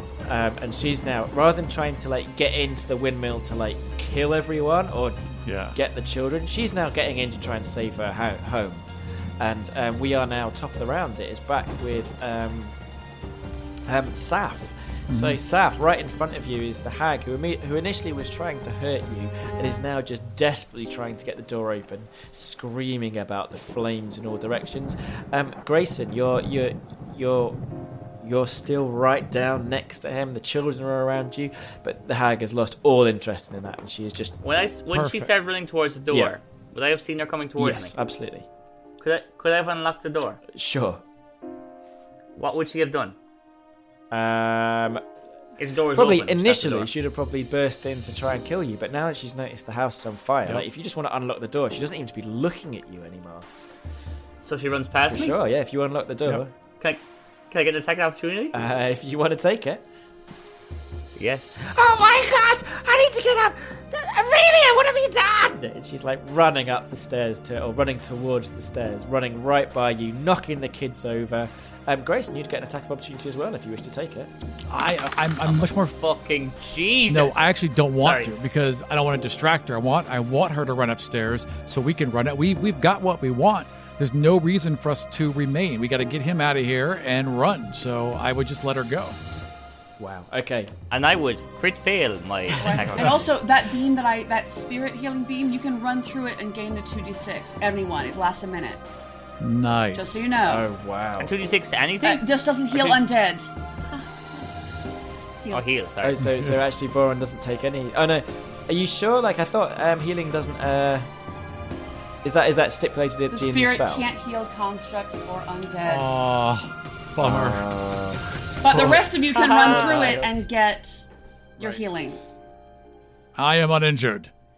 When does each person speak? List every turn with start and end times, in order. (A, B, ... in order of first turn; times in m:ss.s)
0:00.2-0:05.2 A
0:05.4-0:05.8 B
0:05.7-0:08.9 A
0:09.4-0:12.7 A
0:13.9-0:27.6 A
0:15.1-0:15.4 B
0:28.2-0:34.3 A
0:34.4-0:37.9 C
0:34.9-0:35.4 B
0:36.1-0:36.4 A
0:37.6-0:38.5 A
0:39.0-0:40.4 C
0:40.5-0:41.0 A
0:42.3-0:43.2 C
0:44.1-0:45.0 A
0:45.6-0:46.9 C
0:45.9-0:53.5 A
0:54.4-0:55.4 C
0:55.1-0:56.5 A
0:56.8-0:58.5 C
0:58.5-0:59.8 A
1:01.2-1:01.5 C
1:01.8-1:03.1 D
1:01.9-1:04.0 A
1:04.2-1:05.7 D
1:05.6-1:14.3 A
1:14.7-1:15.9 B
1:15.4-1:18.3 C
1:17.1-1:29.2 B
1:30.0-1:30.7 A
1:30.9-1:33.2 C
1:32.6-1:39.0 E
1:32.8-1:33.2 A
1:39.4-1:40.2 B
1:39.9-1:40.6 E
1:40.4-1:41.3 A
1:41.2-1:43.1 C
1:42.0-1:44.4 E
1:45.5-1:46.2 C
1:46.0-1:51.1 A
1:46.2-1:46.5 B
1:52.2-1:54.1 A
1:53.3-1:56.2 E
1:55.8-1:57.6 B
1:57.2-2:00.3 A
1:58.6-2:01.0 E
1:59.3-2:00.3 C
2:01.6-2:02.2 E
2:03.4-2:04.3 B